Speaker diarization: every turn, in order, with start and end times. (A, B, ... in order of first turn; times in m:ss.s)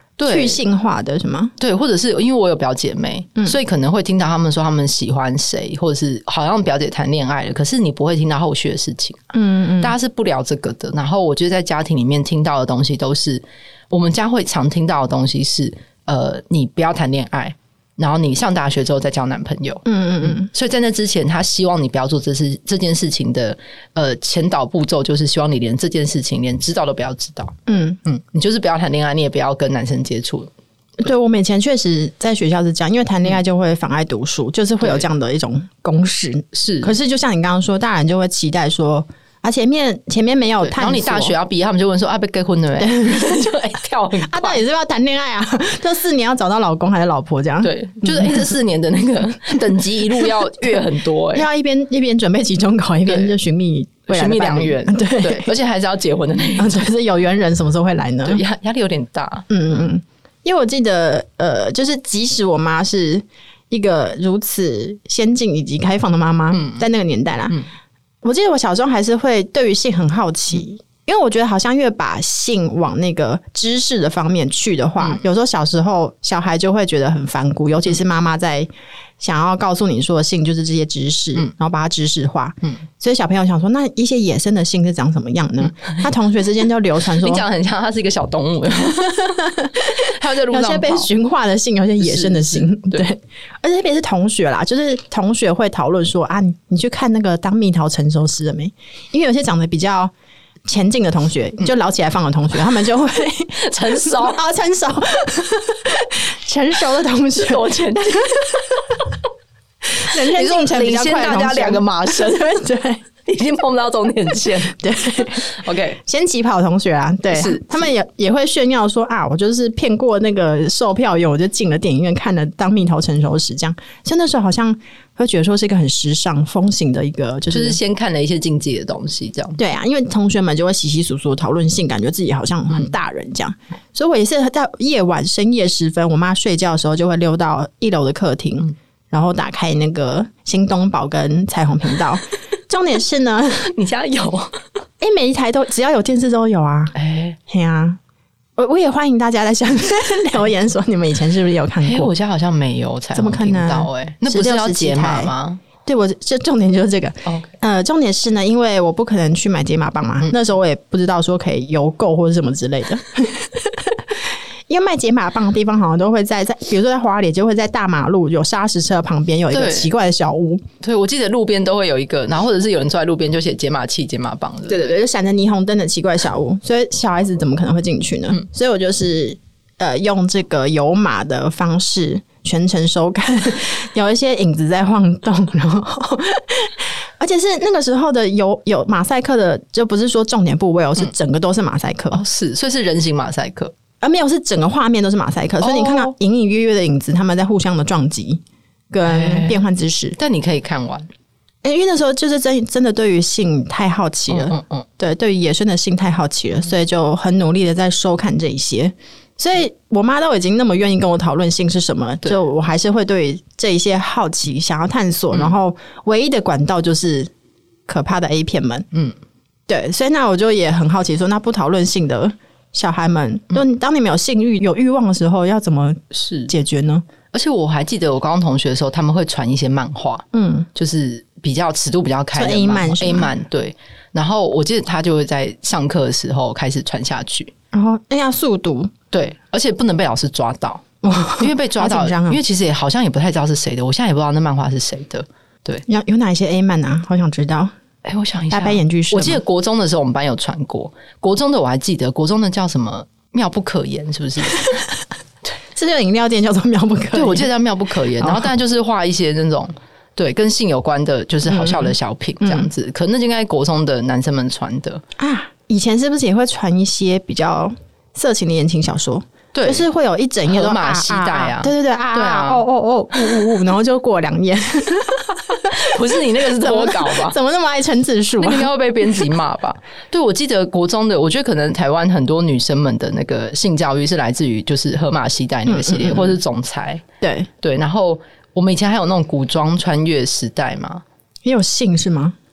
0:00.2-0:00.6 A
0:00.3-0:01.5 B
0:01.6-0:30.5 A
0:09.3-0:10.0 B
0:19.9-0:20.5 B
0:27.7-0:28.0 B
0:31.0-0:41.4 B
0:36.6-0:36.9 A
0:40.6-0:44.6 A
0:42.8-0:43.5 B
0:44.1-0:48.5 B
0:47.6-0:51.5 A
0:50.2-0:50.7 B
0:51.3-0:55.5 B
0:53.1-0:53.4 A
0:54.1-0:56.9 A
0:56.6-0:58.4 B
0:58.2-0:59.5 A
0:59.5-1:07.6 B
1:06.5-1:06.9 A
1:08.2-1:27.4 B
1:27.2-1:31.1 A
1:29.0-1:40.1 B
1:32.0-1:33.1 A
1:40.7-1:49.0 B
1:43.6-1:44.4 A
1:47.4-1:48.5 A
1:50.0-1:53.0 B
1:50.1-1:52.5 A
1:53.3-1:56.0 A
1:54.6-1:55.5 B
1:56.0-2:07.8 B
1:57.3-1:57.9 A
2:07.5-2:09.6 A
2:09.6-2:23.7 B
2:23.7-2:24.6 A
2:25.0-2:27.0 B
2:27.0-2:27.4 A
2:27.5-2:28.0 B
2:28.6-2:32.1 B
2:31.8-2:35.6 A
2:33.2-2:50.6 B
2:37.3-2:37.5 A
2:49.5-2:49.9 A
2:50.8-2:55.0 A
2:54.7-3:12.2 B
3:12.1-3:13.8 A
3:14.0-3:20.2 B
3:15.6-3:16.1 A
3:19.1-3:19.6 A
3:20.2-3:21.1 A
3:21.6-3:37.3 B
3:24.3-3:24.8 A
3:37.9-3:38.9 B
3:39.7-3:47.0 B
3:46.1-3:46.5 A
3:47.3-3:57.5 A
3:50.3-3:50.7 B
3:52.3-3:53.3 B
3:57.7-3:58.9 B
3:59.1-4:05.8 A
4:01.0-4:02.4 B
4:05.9-4:07.7 B
4:08.0-4:14.8 A
4:08.5-4:09.4 B
4:15.8-4:17.5 B
4:17.1-4:25.0 A
4:18.2-4:18.5 B
4:21.5-4:22.7 B
4:25.2-4:39.2 B
4:29.5-4:29.9 A
4:30.5-4:32.6 A
4:35.8-4:37.4 A
4:38.4-4:47.0 A
4:45.7-4:46.4 B
4:47.2-4:47.5 B
4:47.6-4:51.0 A
4:51.4-4:52.4 B